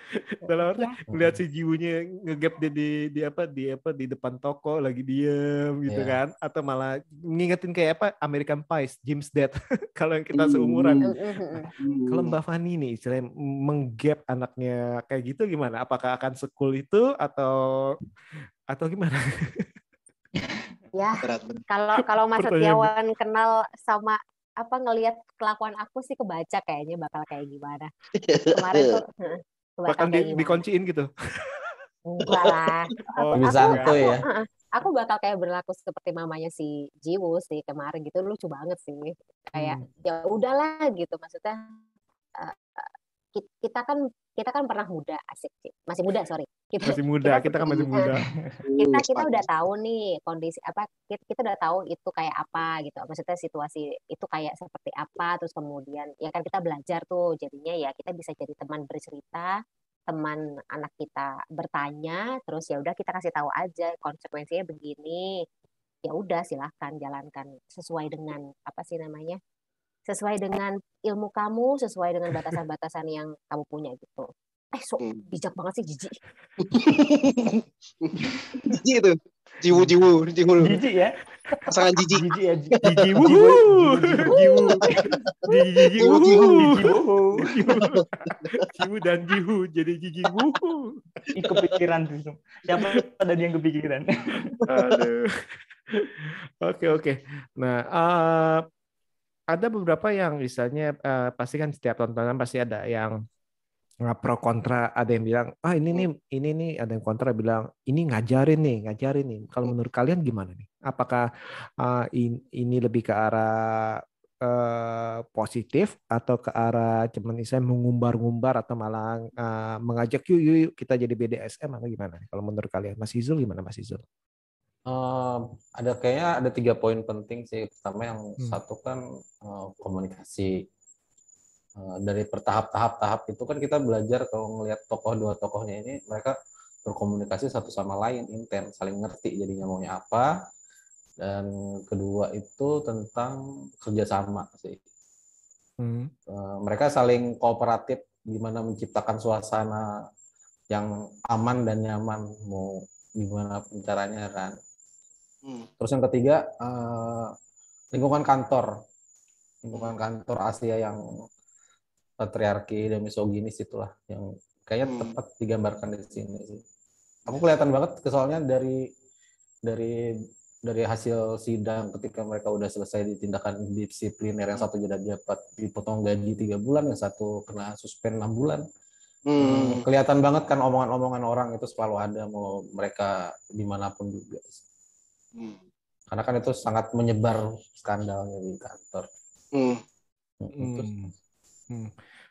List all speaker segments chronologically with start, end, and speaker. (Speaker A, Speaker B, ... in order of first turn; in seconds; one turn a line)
Speaker A: 0.1-17.9
Speaker B: 1.1-1.4
Speaker B: 5.9-6.2
Speaker C: 10.3-11.0
Speaker D: 11.1-11.7
Speaker C: 11.8-12.3
Speaker A: 18.7-19.7
Speaker D: 20.9-27.9
Speaker C: 21.2-21.6
Speaker A: 22.4-22.9
Speaker C: 28.2-29.0
Speaker D: 28.5-30.6
Speaker A: 29.9-31.1
Speaker D: 32.1-41.6
Speaker A: 33.2-34.0
Speaker B: 33.4-34.2
Speaker B: 39.6-39.9
Speaker D: 42.4-48.1
Speaker A: 46.8-48.6
Speaker C: 48.7-49.4
Speaker D: 48.8-59.5
Speaker D: 60.1-65.3
Speaker D: 66.1-69.4
Speaker D: 70.1-76.2
Speaker C: 76.6-80.8
Speaker E: 80.6-82.8
Speaker C: 81.7-83.6
Speaker A: 82.8-85.0
Speaker E: 83.6-84.4
Speaker A: 85.5-86.9
Speaker C: 86.0-86.6
Speaker E: 86.4-87.5
Speaker A: 87.4-91.0
Speaker C: 87.8-88.0
Speaker E: 91.3-94.6
Speaker A: 94.7-95.3
Speaker A: 96.6-98.6
Speaker A: 99.5-103.1
Speaker A: 104.1-111.2
Speaker A: 111.8-124.0
Speaker B: 124.9-130.5
Speaker B: 131.8-136.3
Speaker B: 136.9-140.3
Speaker B: 141.2-144.8
Speaker A: 145.8-146.1
Speaker B: 146.3-149.9
Speaker B: 150.7-154.6
Speaker B: 155.8-157.3
Speaker B: 157.9-158.7
Speaker B: 159.6-161.0
Speaker B: 162.2-166.6
Speaker C: 164.8-165.1
Speaker B: 167.3-168.9
Speaker B: 169.7-169.9
Speaker B: 170.7-178.6
Speaker C: 179.3-179.9
Speaker B: 179.4-184.6
Speaker B: 186.1-189.1
Speaker B: 190.4-190.9
Speaker A: 190.6-191.1